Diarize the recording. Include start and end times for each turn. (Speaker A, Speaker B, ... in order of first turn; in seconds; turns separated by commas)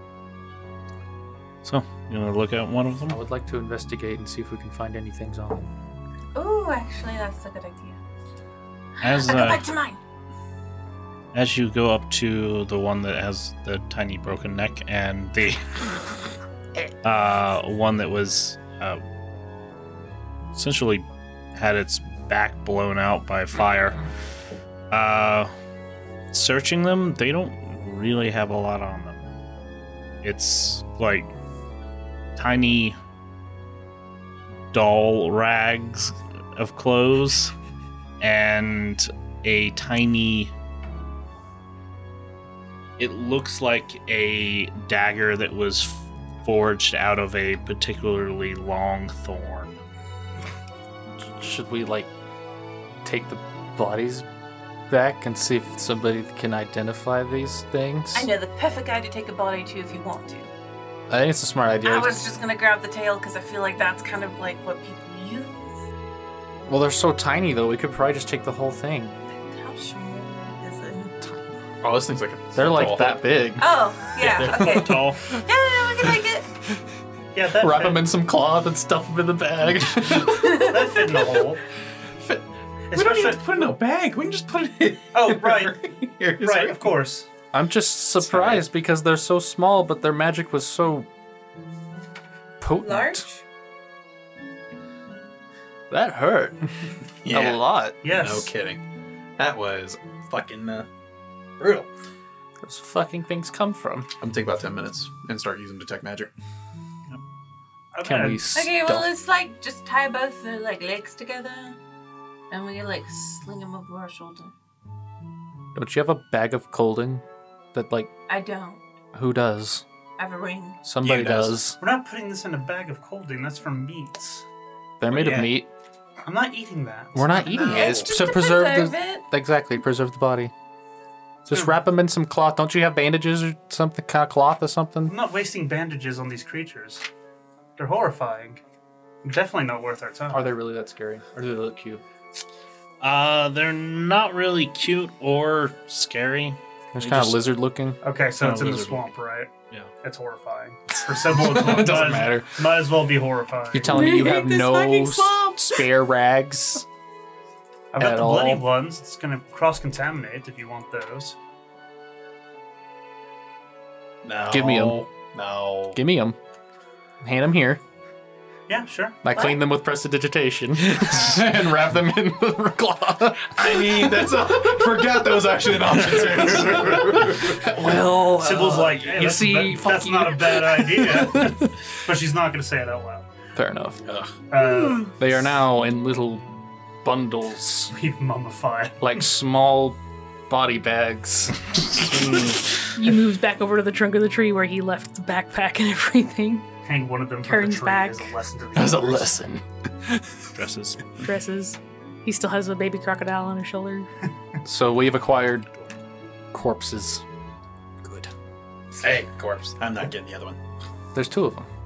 Speaker A: 1.6-3.2, Speaker B: 3.1-5.7, Speaker C: 6.3-8.0, Speaker A: 9.0-9.7, Speaker C: 9.0-10.0, Speaker A: 11.3-15.8, Speaker A: 17.0-19.0, Speaker A: 20.5-24.0, Speaker A: 24.9-25.5, Speaker A: 26.3-29.3, Speaker A: 30.2-31.3, Speaker A: 32.4-33.0, Speaker A: 34.7-37.5, Speaker A: 38.2-40.5, Speaker A: 43.0-49.8, Speaker B: 51.2-52.1, Speaker B: 53.0-54.3, Speaker B: 54.9-58.3, Speaker C: 58.1-60.5, Speaker B: 61.1-62.3, Speaker C: 61.8-65.8, Speaker B: 66.7-69.2, Speaker C: 69.3-71.2, Speaker D: 71.8-73.3, Speaker B: 72.5-75.4, Speaker C: 73.6-76.5, Speaker A: 74.4-75.3, Speaker E: 77.3-78.1, Speaker B: 77.6-81.2, Speaker E: 80.4-81.6, Speaker E: 82.9-83.5, Speaker D: 82.9-87.0, Speaker E: 85.1-85.8, Speaker E: 86.4-87.3, Speaker B: 87.5-91.1, Speaker D: 88.2-88.7, Speaker B: 92.6-93.2, Speaker C: 92.7-93.4, Speaker B: 95.9-98.0, Speaker D: 97.2-98.8, Speaker E: 98.0-98.5, Speaker D: 99.4-100.9, Speaker D: 101.6-101.9, Speaker B: 102.6-104.1, Speaker D: 104.2-106.3, Speaker E: 107.9-108.5, Speaker B: 108.0-109.1, Speaker C: 108.5-111.8, Speaker C: 112.5-114.5, Speaker B: 115.7-117.2, Speaker B: 117.7-118.1, Speaker C: 118.3-118.8, Speaker B: 119.1-119.8, Speaker C: 120.2-120.8, Speaker B: 120.8-121.8, Speaker D: 121.0-121.6, Speaker E: 121.8-124.4, Speaker B: 125.0-125.7, Speaker D: 125.1-125.5, Speaker E: 126.2-127.4, Speaker B: 127.1-130.5, Speaker D: 127.4-128.2, Speaker C: 127.5-129.3, Speaker B: 131.4-135.1, Speaker E: 135.1-137.0, Speaker E: 137.8-138.6, Speaker E: 139.2-140.5, Speaker B: 140.3-142.0, Speaker A: 143.0-147.5, Speaker B: 146.9-148.0, Speaker E: 148.0-149.5, Speaker A: 148.4-149.1, Speaker E: 150.0-154.1, Speaker B: 151.2-152.6, Speaker B: 153.7-156.8, Speaker C: 153.8-155.9, Speaker E: 157.9-161.4, Speaker B: 158.0-158.7, Speaker D: 164.2-166.0, Speaker B: 164.5-165.1, Speaker B: 165.9-166.4, Speaker B: 167.2-167.8, Speaker E: 168.7-169.2, Speaker B: 169.2-174.3, Speaker C: 169.3-169.6, Speaker D: 173.6-177.7, Speaker B: 176.9-181.7, Speaker E: 178.3-183.3, Speaker B: 183.5-184.0, Speaker D: 184.0-184.3, Speaker E: 184.5-185.2, Speaker B: 184.9-186.4, Speaker B: 187.0-187.9, Speaker E: 187.9-189.2, Speaker B: 189.0-190.0, Speaker B: 190.5-191.9, Speaker A: 192.0-192.7, Speaker F: 192.9-196.6, Speaker E: 196.8-199.3, Speaker F: 197.4-198.2, Speaker B: 198.7-200.2, Speaker A: 200.5-201.1, Speaker F: 201.2-204.1, Speaker B: 204.6-205.7, Speaker B: 206.5-207.2, Speaker B: 208.0-208.3, Speaker D: 209.0-210.6, Speaker B: 211.1-211.7